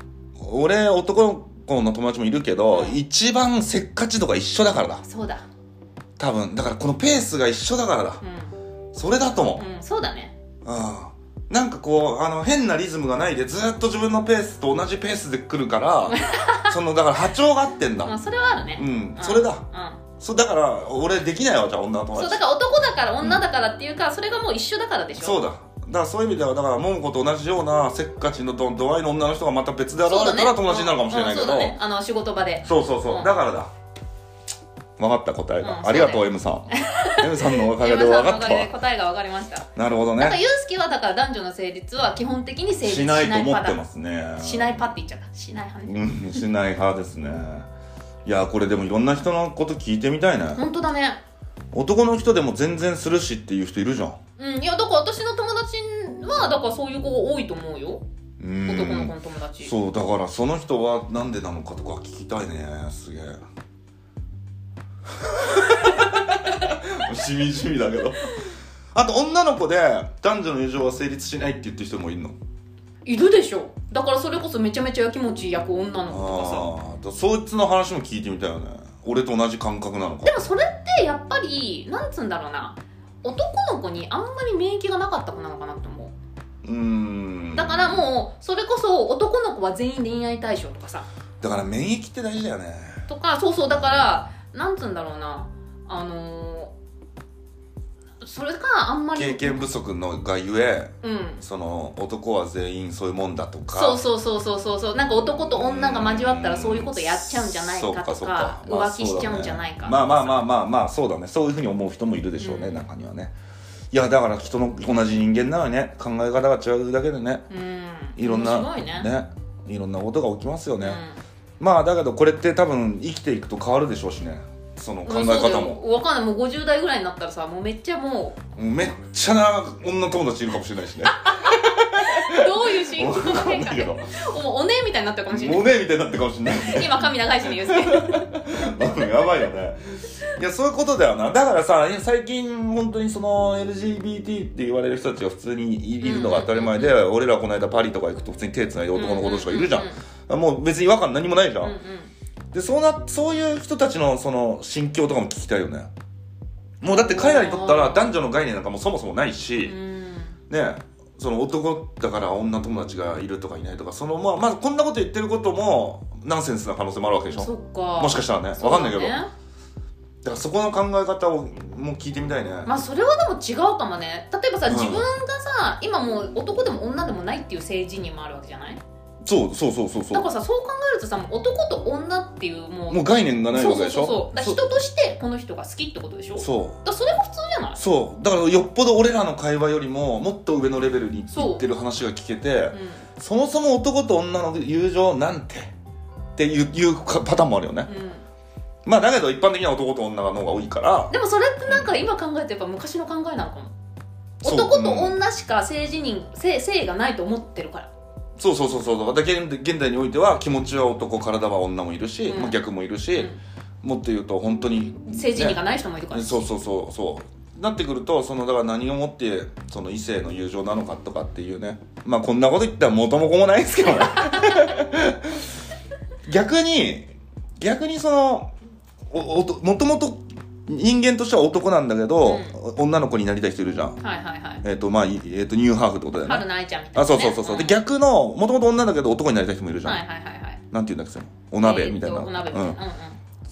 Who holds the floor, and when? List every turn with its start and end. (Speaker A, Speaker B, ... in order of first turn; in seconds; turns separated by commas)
Speaker A: 0.4-5.0, Speaker B: 2.7-3.0, Speaker B: 5.0-5.5, Speaker A: 6.2-8.2, Speaker B: 8.2-8.5, Speaker A: 8.9-9.6, Speaker B: 9.6-10.3, Speaker A: 10.6-18.2, Speaker B: 16.1-16.7, Speaker B: 18.0-20.0, Speaker A: 18.7-19.6, Speaker A: 20.2-22.4, Speaker B: 22.1-25.4, Speaker A: 25.2-31.8, Speaker B: 30.0-33.3, Speaker A: 32.6-33.7, Speaker A: 35.0-38.7, Speaker B: 35.6-39.7, Speaker A: 39.7-40.4, Speaker B: 40.2-43.8, Speaker A: 42.8-44.8, Speaker B: 44.4-46.4, Speaker A: 45.9-47.7, Speaker A: 48.2-50.6, Speaker B: 50.5-51.2, Speaker A: 51.7-54.2, Speaker B: 54.4-58.0, Speaker A: 58.4-63.4, Speaker B: 58.7-59.7, Speaker A: 65.1-68.4, Speaker A: 68.9-72.3, Speaker B: 73.0-76.7, Speaker A: 76.1-80.4, Speaker B: 80.2-86.1, Speaker A: 86.6-88.0, Speaker B: 87.5-91.1, Speaker A: 91.4-93.0, Speaker B: 93.1-96.7, Speaker A: 93.7-94.2, Speaker B: 98.2-99.6, Speaker A: 99.1-104.0, Speaker B: 101.0-101.4, Speaker B: 103.7-110.4, Speaker A: 105.3-113.3, Speaker B: 112.4-112.8, Speaker A: 113.9-117.4, Speaker B: 117.5-119.1, Speaker A: 118.2-121.0, Speaker B: 120.8-121.2, Speaker A: 121.6-125.8, Speaker B: 125.0-128.4, Speaker A: 128.6-134.1, Speaker B: 131.1-135.7, Speaker A: 135.3-151.8, Speaker B: 136.6-138.4, Speaker B: 146.0-146.9, Speaker B: 148.9-150.0, Speaker B: 151.6-152.1, Speaker A: 152.5-155.9, Speaker A: 156.8-159.7, Speaker B: 156.9-158.2, Speaker B: 159.6-160.4, Speaker A: 160.5-169.2, Speaker B: 167.3-169.3, Speaker A: 170.2-172.7, Speaker B: 172.7-178.8, Speaker A: 174.7-175.1, Speaker A: 179.2-180.3, Speaker B: 180.1-187.8, Speaker A: 182.9-184.7, Speaker A: 186.4-186.8, Speaker A: 187.8-195.7, Speaker B: 191.3-191.6, Speaker B: 192.7-193.1, Speaker A: 196.3-197.9, Speaker B: 197.9-198.2, Speaker A: 198.8-201.1, Speaker B: 201.1-203.7, Speaker A: 204.4-205.2, Speaker B: 204.4-207.9, Speaker A: 208.4-213.3, Speaker B: 212.3-212.6, Speaker A: 213.8-215.6, Speaker B: 215.1-216.5, Speaker A: 216.1-225.5, Speaker B: 224.0-224.8, Speaker A: 226.2-228.5, Speaker A: 229.1-234.0, Speaker B: 232.2-232.5, Speaker B: 234.0-234.6, Speaker A: 234.6-240.0, Speaker B: 236.2-237.8, Speaker B: 239.8-240.6, Speaker A: 240.7-242.8, Speaker B: 241.6-243.2